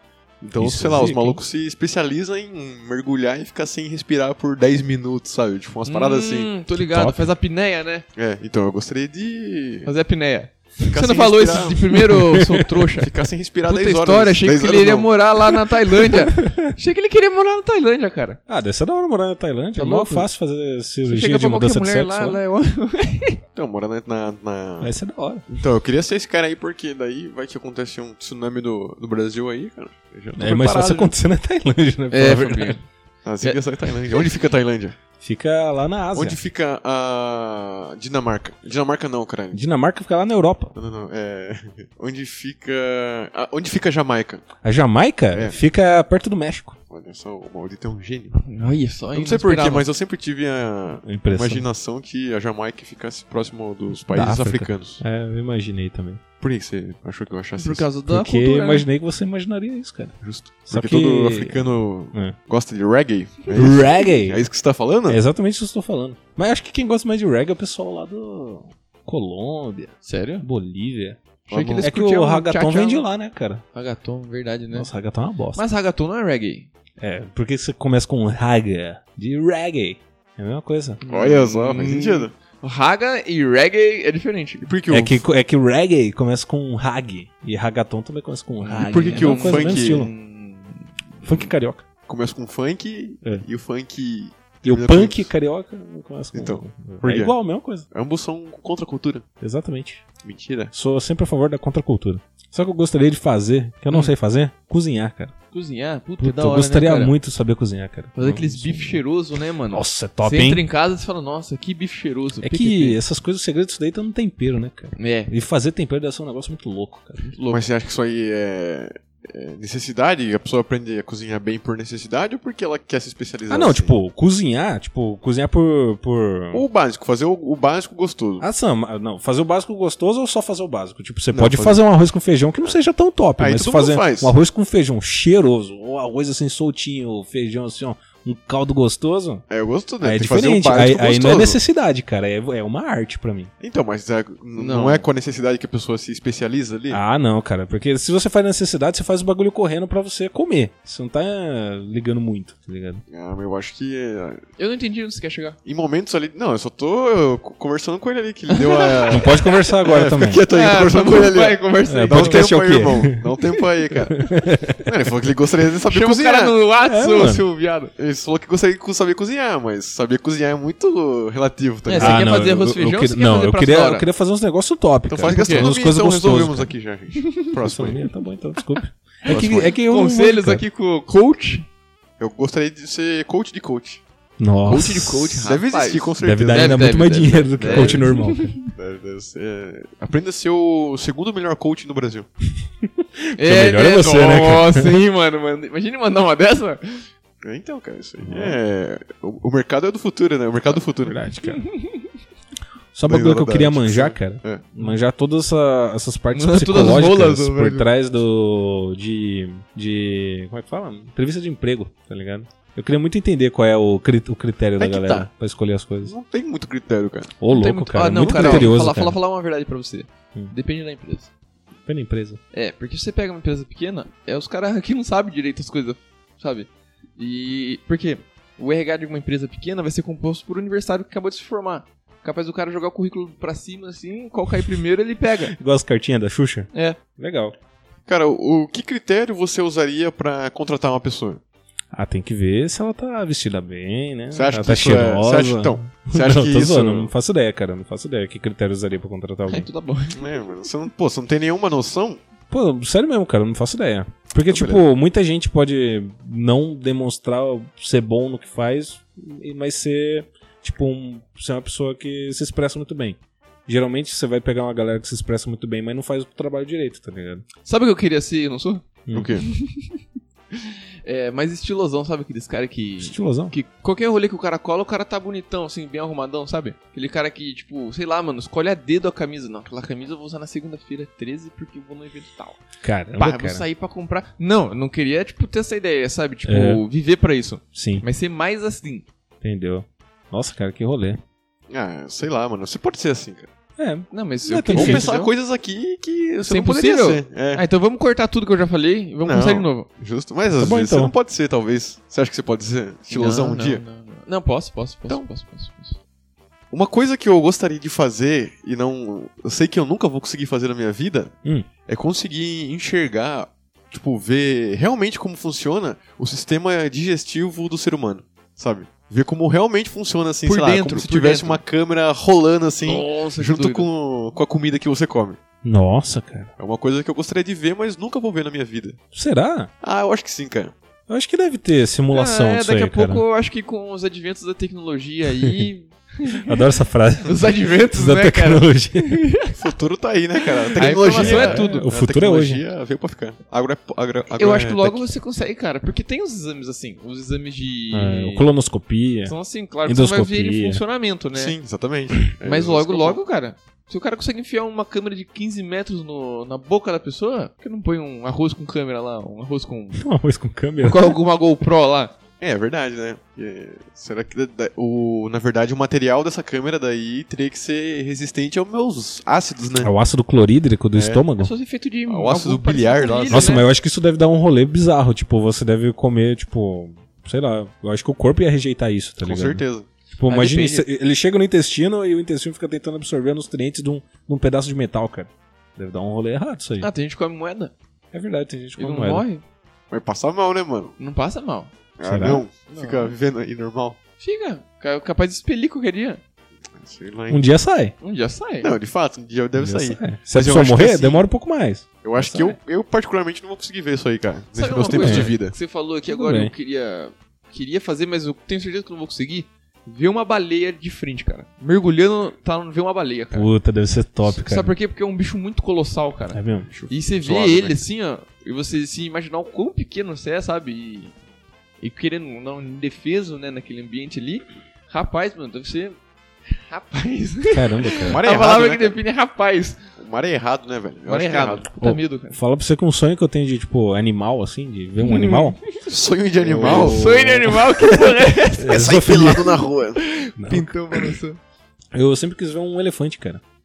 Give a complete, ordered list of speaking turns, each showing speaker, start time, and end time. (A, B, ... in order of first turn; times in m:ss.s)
0:00.4-0:06.5 A
0:00.6-0:01.4 B
0:05.9-0:08.0 C
0:06.7-0:07.3 B
0:08.2-0:09.9 A
0:09.8-0:13.1 C
0:10.9-0:12.0 A
0:12.0-0:12.8 B
0:13.0-0:15.7 A
0:13.7-0:18.4 C
0:18.5-0:22.4 B
0:19.8-0:20.2 C
0:21.1-0:23.4 C
0:23.5-0:24.9 A
0:24.8-0:25.4 B
0:25.5-0:31.1 A
0:30.4-0:32.8 B
0:32.1-0:32.9 C
0:33.2-0:35.0 A
0:35.2-0:36.4 B
0:36.1-0:39.6 A
0:39.5-0:40.7 B
0:40.7-0:44.5 A
0:44.6-0:46.8 B
0:45.3-0:45.6 A
0:46.9-0:48.4 A
0:48.4-0:49.9 C
0:49.1-0:55.0 A
0:51.0-0:51.7 B
0:54.1-0:56.2 B
0:56.4-0:57.9 A
0:57.6-0:58.9 C
0:58.1-1:00.1 B
1:00.2-1:05.2 A
1:00.7-1:02.4 B
1:03.5-1:04.4 B
1:05.1-1:11.2 B
1:10.0-1:10.4 C
1:11.5-1:11.8 A
1:11.5-1:13.0 C
1:11.8-1:13.6 B
1:13.7-1:14.9 C
1:14.7-1:15.6 B
1:15.5-1:16.7 C
1:17.0-1:21.0 B
1:21.0-1:24.7 C
1:21.1-1:22.3 A
1:24.6-1:25.2 A
1:24.9-1:30.1 B
1:28.6-1:30.9 C
1:28.7-1:30.1 A
1:31.2-1:31.8 B
1:32.1-1:35.3 A
1:34.6-1:37.8 B
1:36.3-1:37.4 A
1:37.9-1:39.2 A
1:39.4-1:40.0 B
1:40.2-1:40.7 A
1:40.7-1:45.3 B
1:45.5-1:47.1 C
1:46.2-1:49.0 B
1:48.2-1:53.0 C
1:49.7-1:50.6 B
1:52.4-1:57.2 B
1:55.0-1:55.3 C
1:57.2-1:57.7 C
1:57.5-2:03.9 A
2:03.5-2:06.6 B
2:06.5-2:08.4 A
2:08.4-2:19.4 B
2:11.3-2:11.8 A
2:13.4-2:14.3 A
2:19.5-2:21.6 A
2:20.0-2:23.5 B
2:23.6-2:27.0 A
2:24.6-2:25.0 C
2:26.9-2:33.0 B
2:33.1-2:34.4 A
2:34.6-2:35.6 C
2:35.6-2:44.2 A
2:38.5-2:39.5 C
2:39.1-2:40.4 B
2:40.5-2:42.5 C
2:41.9-2:43.2 B
2:44.1-2:44.9 B
2:44.8-2:46.6 A
2:45.9-2:47.9 C
2:46.9-2:47.4 B
2:48.0-2:52.2 A
2:51.9-2:54.1 C
2:51.9-2:56.7 B
2:55.1-2:58.0 A
2:55.2-2:55.7 C
2:57.6-3:00.6 B
2:58.8-3:01.7 C
2:59.3-2:59.7 A
3:02.2-3:04.0 A
3:04.4-3:05.4 B
3:04.7-3:08.5 C
3:05.4-3:08.1 A
3:06.2-3:08.6 B
3:08.7-3:12.3 A
3:12.8-3:15.0 B
3:13.4-3:17.1 C
3:17.4-3:21.2 A
3:18.2-3:18.6 B
3:20.7-3:21.6 B
3:21.5-3:22.1 C
3:22.9-3:36.1 B
3:23.1-3:24.7 A
3:26.3-3:27.9 C
3:34.8-3:35.3 A
3:36.0-3:37.4 A
3:37.4-3:39.2 B
3:37.5-3:41.3 C
3:38.1-3:38.8 A
3:41.9-3:42.4 B
3:42.5-3:55.6 C
3:55.6-3:57.5 B
3:56.7-3:57.0 C
3:58.1-4:01.4 A
4:01.9-4:09.7 B
4:04.3-4:07.1 A
4:09.5-4:10.2 C
4:10.1-4:12.2 A
4:12.5-4:27.4 B
4:14.5-4:14.8 A
4:27.6-4:28.8 C
4:29.1-4:29.3 B
4:29.1-4:29.4 A
4:29.4-4:30.0 C
4:30.5-4:42.6 C
4:33.0-4:33.5 B
4:42.8-4:43.6 B
4:43.1-4:49.0 C
4:46.4-4:46.8 B
4:47.7-4:48.0 B
4:49.4-4:51.2 B
4:51.7-4:53.5 A
4:53.8-4:55.1 B
4:54.1-4:55.3 C
4:54.7-4:57.6 A
4:56.5-4:59.9 C
4:59.2-5:03.8 A
5:00.6-5:01.1 B
5:03.1-5:06.0 C
5:06.7-5:11.4 A
5:11.9-5:25.4 A
5:20.4-5:21.6 C
5:22.8-5:23.9 C
5:25.6-5:26.5 B
5:26.6-5:29.0 A
5:29.1-5:29.7 B
5:29.8-5:30.7 A
5:31.1-5:33.2 B
5:32.1-5:36.6 C
5:36.4-5:39.2 B
5:37.2-5:39.6 C
5:39.6-5:45.1 A
5:40.8-5:41.7 C
5:41.1-5:42.6 B
5:44.3-5:48.5 C
5:47.9-5:49.3 B
5:49.2-5:51.5 C
5:49.9-5:50.8 B
5:51.3-5:53.2 A
5:52.4-6:00.0 C
6:00.0-6:01.2 B
6:00.8-6:02.1 C
6:02.4-6:09.9 A
6:09.8-6:11.5 B
6:10.9-6:11.2 A
6:11.4-6:13.6 C
6:12.1-6:13.6 A
6:13.3-6:26.9 B
6:19.2-6:19.9 A
6:20.3-6:20.9 C
6:26.8-6:27.7 C
6:28.1-6:29.2 B
6:28.8-6:29.4 C
6:29.9-6:30.9 A
6:31.0-6:31.7 C
6:32.0-6:34.0 A
6:32.0-6:32.4 B
6:32.7-6:33.1 C
6:34.2-6:36.2 C
6:36.8-6:37.4 A
6:37.3-6:37.9 B
6:38.0-6:38.7 C
6:38.6-6:41.2 A
6:39.6-6:42.5 B
6:42.0-6:45.5 A
6:44.5-6:53.5 C
6:44.9-6:45.4 B
6:46.1-6:46.5 B
6:53.3-6:54.7 B
6:54.3-7:01.1 C
6:56.3-6:56.7 B
6:56.7-6:57.8 A
7:01.8-7:06.0 C
7:06.5-7:09.8 C
7:07.5-7:08.2 B
7:08.1-7:09.0 A
7:10.0-7:11.7 A
7:11.1-7:12.4 C
7:11.8-7:15.6 B
7:15.0-7:15.8 C
7:15.8-7:17.0 A
7:16.4-7:17.8 B
7:16.6-7:18.9 C
7:18.6-7:19.6 B
7:18.7-7:20.0 A
7:20.0-7:21.4 C
7:20.4-7:20.7 B
7:21.9-7:23.4 B